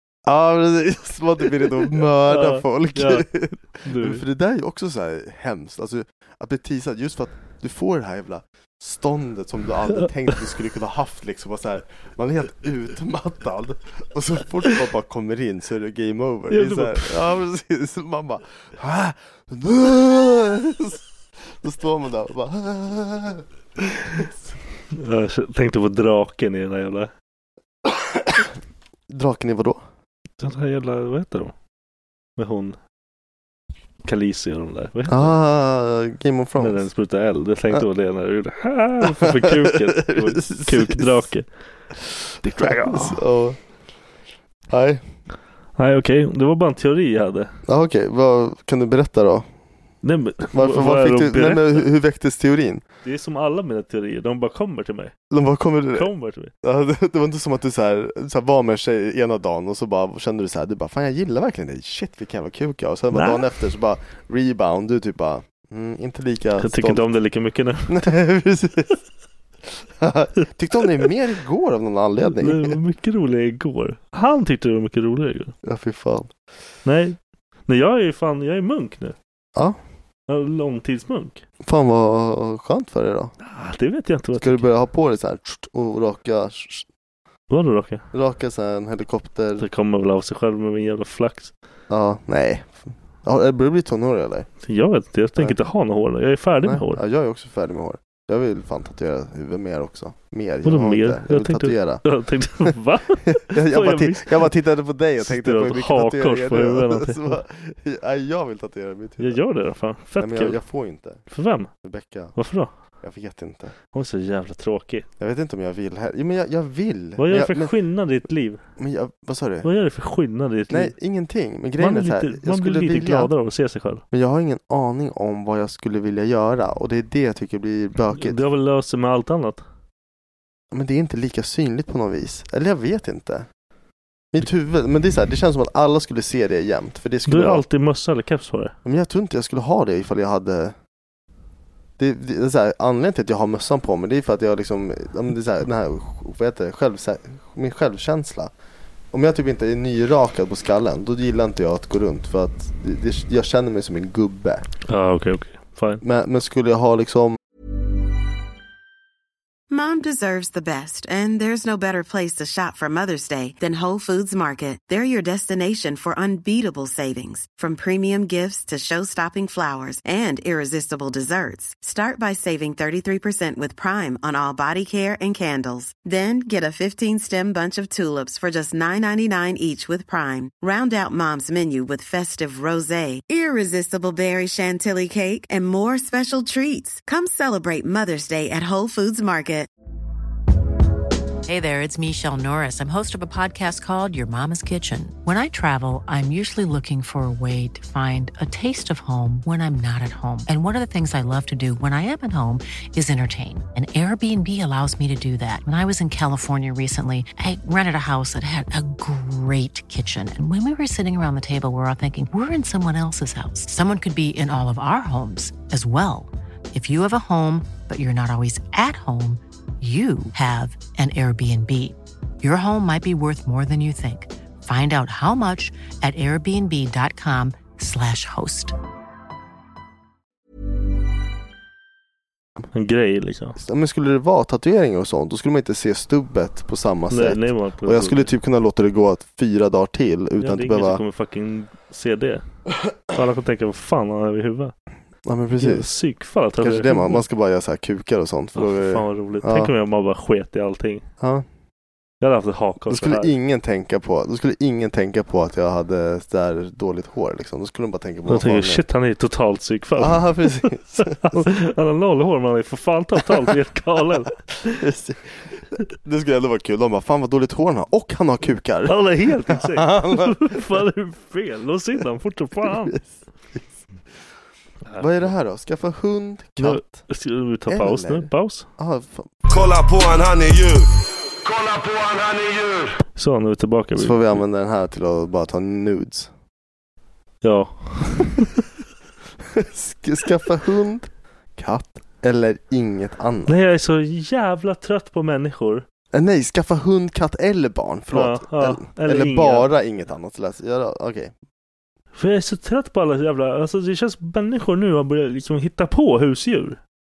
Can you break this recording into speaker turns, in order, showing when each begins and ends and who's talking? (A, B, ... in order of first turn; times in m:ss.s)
0:00.3-0:23.5 A
0:02.3-0:03.3 B
0:03.8-0:04.2 B
0:16.5-0:17.2 B
0:24.9-0:27.1 B
0:27.9-0:28.4 A
0:29.1-0:29.8 A
0:30.4-0:31.5 B
0:32.4-0:32.8 B
0:34.0-0:35.3 B
0:35.1-0:36.9 A
0:36.6-0:41.5 B
0:39.0-0:41.2 A
0:42.4-0:43.2 B
0:42.6-0:43.6 A
0:44.7-0:45.0 A
0:45.8-0:47.5 B
0:47.7-0:49.5 A
0:50.0-0:51.8 B
0:50.5-0:52.8 A
0:53.0-0:55.1 B
0:55.3-0:56.1 A
0:55.9-0:56.5 B
0:56.6-1:07.1 A
1:03.1-1:03.4 B
1:06.6-1:08.0 B
1:07.9-1:09.0 A
1:10.0-1:12.8 A
1:12.3-1:15.5 B
1:15.6-1:16.3 A
1:16.8-1:19.2 B
1:20.3-1:21.4 B
1:21.6-1:23.4 A
1:23.4-1:24.7 B
1:24.4-1:26.9 A
1:27.5-1:28.0 B
1:28.1-1:29.7 A
1:29.6-1:31.5 B
1:31.9-1:34.5 A
1:34.6-1:37.0 B
1:36.6-1:42.0 A
1:40.6-1:44.4 B
1:43.4-1:49.4 A
1:45.2-1:47.4 B
1:49.2-1:50.6 B
1:50.2-1:51.2 A
1:51.3-1:51.7 B
1:51.8-1:52.4 A
1:52.4-1:52.7 B
1:53.0-1:53.8 A
1:53.9-1:55.1 B
1:55.2-1:57.7 A
1:57.2-1:58.6 B
1:58.8-1:59.7 A
1:59.6-2:00.9 B
2:00.7-2:03.3 A
2:01.8-2:04.0 B
2:04.1-2:08.4 A
2:08.1-2:09.6 B
2:10.7-2:13.5 A
2:14.3-2:17.6 A
2:17.3-2:18.7 B
2:18.8-2:20.8 A
2:22.0-2:28.5 A
2:29.1-2:34.7 A
2:34.9-2:36.0 B
2:36.0-2:37.4 A
2:39.7-3:09.7 C
3:11.5-3:48.7 D
3:52.7-3:53.6 B
3:53.6-4:01.0 A
3:57.1-3:58.3 B
4:00.4-4:02.4 B
4:03.1-4:04.7 B
4:05.3-4:05.9 A
4:05.6-4:07.2 B
4:06.6-4:09.7 A
4:08.6-4:11.0 B
4:11.2-4:11.4 A
4:12.2-4:13.3 B
4:12.9-4:18.8 A
4:18.3-4:24.8 B
4:20.0-4:21.5 A
4:23.2-4:23.5 A
4:24.8-4:30.8 A
4:28.8-4:33.0 B
4:32.6-4:33.0 A
4:34.9-4:35.3 B
4:35.0-4:37.1 A
4:36.6-4:38.7 B
4:37.7-4:39.3 A
4:39.5-4:43.0 E
4:43.1-4:44.4 B
4:44.0-4:46.3 A
4:47.4-4:48.5 B
4:49.5-4:53.6 A
4:53.5-4:55.9 B
4:56.1-5:01.3 A
4:58.1-4:59.7 B
5:02.2-5:06.8 B